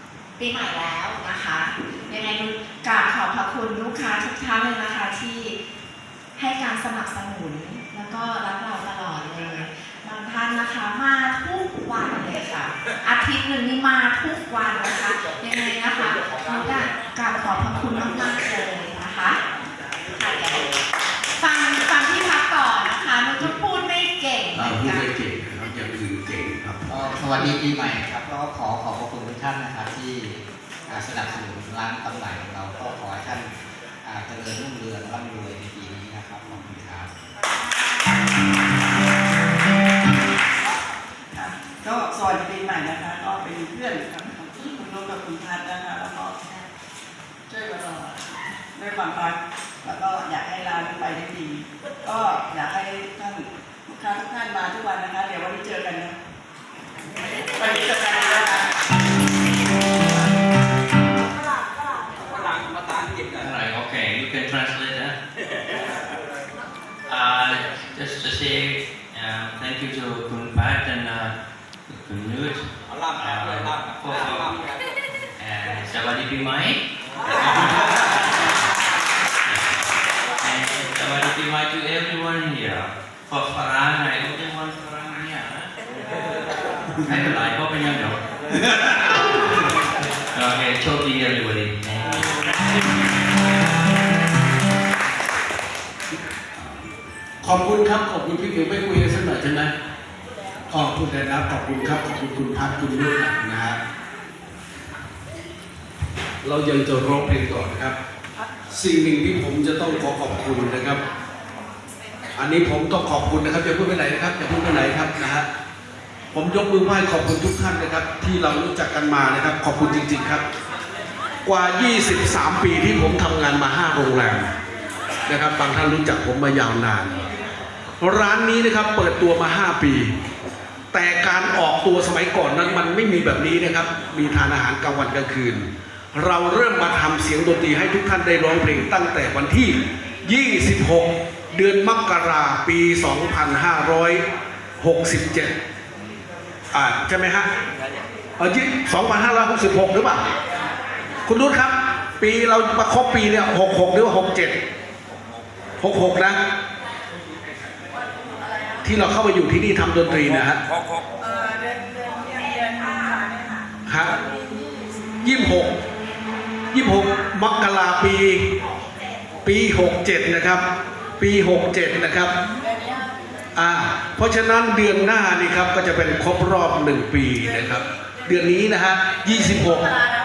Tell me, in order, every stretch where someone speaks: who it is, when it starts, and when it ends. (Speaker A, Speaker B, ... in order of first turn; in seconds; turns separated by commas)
Speaker A: 0.4-5.6, Speaker A: 6.3-19.4, Speaker A: 20.1-20.6, Speaker A: 21.4-25.0, Speaker B: 24.5-27.5, Speaker C: 27.1-30.4, Speaker C: 30.9-33.5, Speaker C: 34.0-37.1, Speaker D: 41.3-46.5, Speaker D: 47.5-56.2, Speaker E: 63.3-65.2, Speaker E: 67.1-71.3, Speaker E: 71.9-74.6, Speaker E: 75.4-76.8, Speaker E: 77.4-78.1, Speaker E: 79.5-79.7, Speaker E: 80.4-85.7, Speaker E: 87.0-88.2, Speaker E: 90.3-92.4, Speaker B: 97.4-99.7, Speaker B: 100.7-103.8, Speaker B: 106.4-108.0, Speaker B: 108.7-111.0, Speaker B: 112.3-115.5, Speaker B: 116.3-120.4, Speaker B: 121.4-124.5, Speaker B: 125.3-127.1, Speaker B: 128.0-130.1, Speaker B: 130.9-144.2, Speaker B: 144.8-145.5, Speaker B: 146.7-147.5, Speaker B: 148.4-150.2, Speaker B: 151.2-154.6, Speaker B: 155.8-156.4, Speaker B: 158.8-160.6, Speaker D: 161.3-163.6, Speaker B: 163.9-164.1, Speaker B: 165.2-165.8, Speaker B: 166.7-168.5, Speaker B: 169.4-170.6, Speaker B: 171.2-172.4, Speaker B: 173.6-179.9